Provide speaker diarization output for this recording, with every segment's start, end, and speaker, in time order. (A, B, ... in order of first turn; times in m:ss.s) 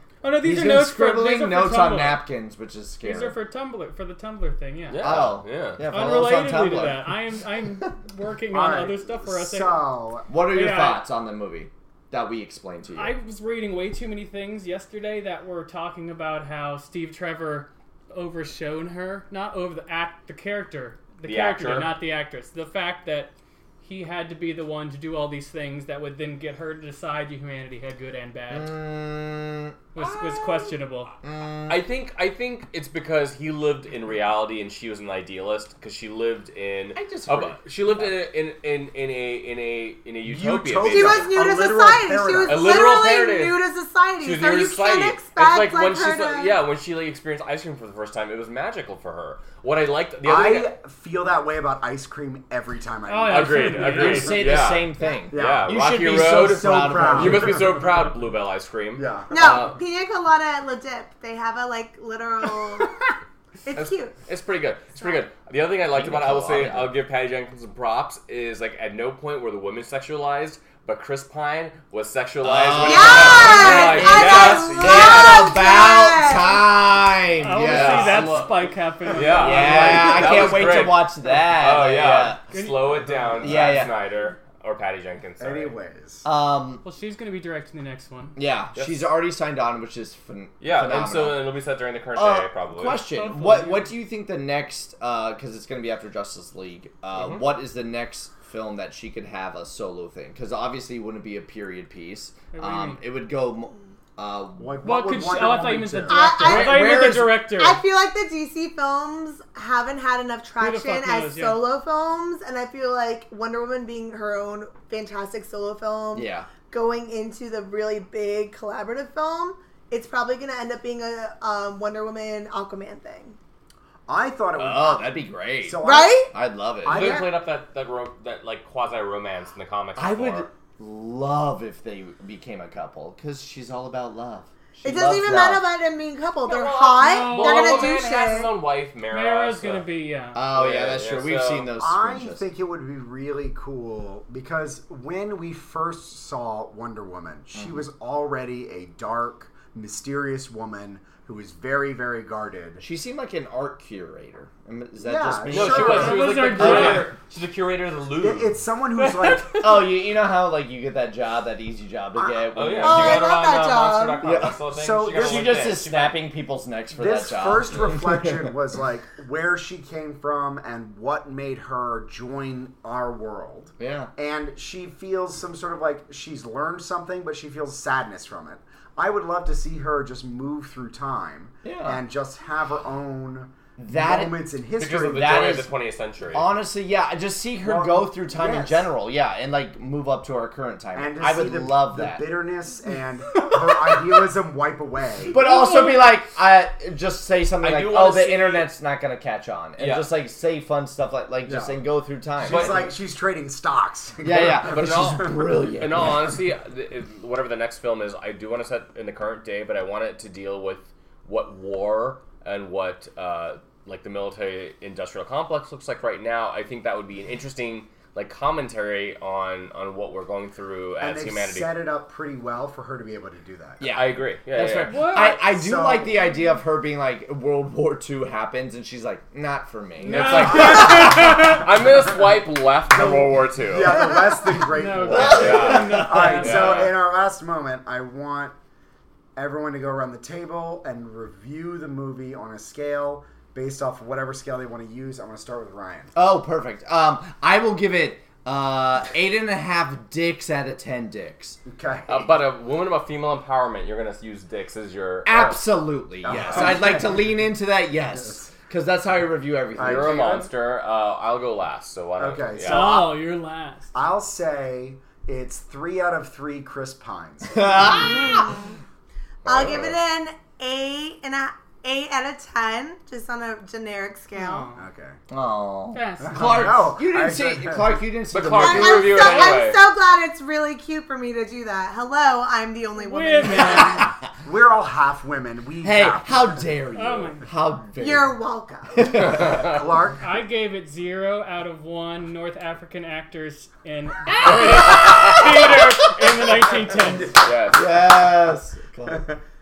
0:00.2-0:02.2 A
0:00.4-0:03.4 B
0:03.0-0:05.3 A
0:04.9-0:05.8 C
0:05.0-0:07.2 B
0:05.9-0:09.9 A
0:08.5-0:10.3 D
0:10.3-0:13.2 B
0:10.5-0:11.0 A
0:12.9-0:28.8 A
0:21.2-0:22.0 C
0:28.5-0:31.9 B
0:29.9-0:31.1 A
0:31.7-0:41.4 C
0:36.9-0:38.1 B
0:40.2-0:42.8 D
0:40.8-0:46.6 E
0:42.4-0:43.6 C
0:44.2-0:50.7 C
0:50.2-0:54.4 D
0:53.0-0:54.5 A
0:53.2-0:59.8 C
0:53.8-0:57.7 B
0:55.3-0:58.0 D
0:58.9-0:59.4 D
0:59.3-1:02.9 E
1:03.6-1:04.2 E
1:03.7-1:15.6 C
1:05.9-1:07.0 B
1:12.4-1:18.4 B
1:12.8-1:16.7 E
1:13.3-1:14.2 A
1:17.4-1:20.8 A
1:17.4-1:25.8 C
1:19.3-1:22.4 B
1:22.5-1:23.9 A
1:23.4-1:23.9 B
1:25.4-1:26.2 D
1:26.2-1:26.8 B
1:26.8-1:28.4 A
1:28.4-1:31.5 B
1:28.7-1:29.0 C
1:30.6-1:33.0 C
1:32.1-1:44.8 B
1:33.1-1:33.9 A
1:37.1-1:37.5 C
1:42.5-1:43.0 A
1:44.6-1:46.3 D
1:44.8-1:47.8 A
1:46.1-2:03.4 E
1:46.4-1:47.4 B
1:50.6-1:51.6 A
1:56.1-1:56.5 B
2:04.1-2:06.3 D
2:04.6-2:07.3 B
2:05.8-2:06.3 E
2:06.8-2:07.4 D
2:06.9-2:10.5 C
2:10.0-2:15.6 B
2:14.8-2:18.5 E
2:16.4-2:19.9 C
2:17.0-2:18.0 A
2:19.1-2:20.4 A
2:20.3-2:22.5 B
2:20.5-2:21.7 C
2:21.8-2:32.8 D
2:27.5-2:27.8 B
2:32.8-2:37.1 B
2:35.0-2:37.0 D
2:35.5-2:39.5 C
2:35.7-2:37.1 A
2:38.2-2:39.8 D
2:39.4-2:43.3 B
2:42.1-2:43.0 D
2:42.5-2:46.2 C
2:42.8-2:44.2 E
2:44.2-2:48.5 B
2:44.6-2:45.8 D
2:46.9-3:05.6 D
2:53.8-2:54.1 B
3:01.6-3:02.0 B
3:03.8-3:05.7 B
3:04.8-3:06.5 C
3:06.3-3:12.3 B
3:07.6-3:08.9 D
3:10.9-3:15.4 D
3:13.4-3:14.0 B
3:15.3-3:22.9 B
3:15.4-3:15.9 A
3:17.6-3:18.7 C
3:19.8-3:20.1 C
3:21.4-3:25.5 D
3:22.4-3:22.9 C
3:24.2-3:26.4 B
3:24.3-3:41.7 C
3:41.0-3:43.9 D
3:43.8-3:50.9 B
3:43.9-3:45.0 C
3:44.9-3:45.4 A
3:45.1-3:46.3 D
3:50.0-3:51.7 A
3:50.0-3:54.0 C
3:50.6-3:51.5 D
3:52.9-3:58.5 D
3:54.5-3:56.9 A
3:55.0-3:56.5 B
3:55.2-3:56.9 C
3:59.4-4:06.1 D
4:06.1-4:11.6 B
4:11.7-4:12.3 D
4:12.1-4:15.6 C
4:15.2-4:20.4 B
4:16.2-4:17.5 D
4:18.1-4:18.5 D
4:19.7-4:20.5 D
4:19.8-4:23.0 C
4:22.2-4:23.2 D
4:22.6-4:23.9 A
4:23.9-4:28.4 D
4:27.5-4:28.6 B
4:28.3-4:28.6 E
4:29.4-4:29.9 C
4:29.4-4:34.7 E
4:34.3-4:34.8 A
4:34.8-4:35.2 D
4:35.3-4:39.4 B
4:35.9-4:36.8 A
4:36.2-4:38.1 D
4:38.3-4:39.8 C
4:38.5-4:43.9 E
4:43.0-4:44.1 A
4:43.5-4:44.2 B
4:44.4-4:46.7 D
4:45.8-4:48.4 B
4:46.9-4:47.4 A
4:48.0-4:49.1 E
4:48.9-4:49.7 B
4:49.2-4:49.8 C
4:49.2-4:50.3 D
4:50.2-4:57.3 A
4:54.4-4:55.8 B
4:57.0-4:57.5 D
4:57.4-4:57.9 C
4:57.7-4:59.2 B
4:59.1-4:59.4 D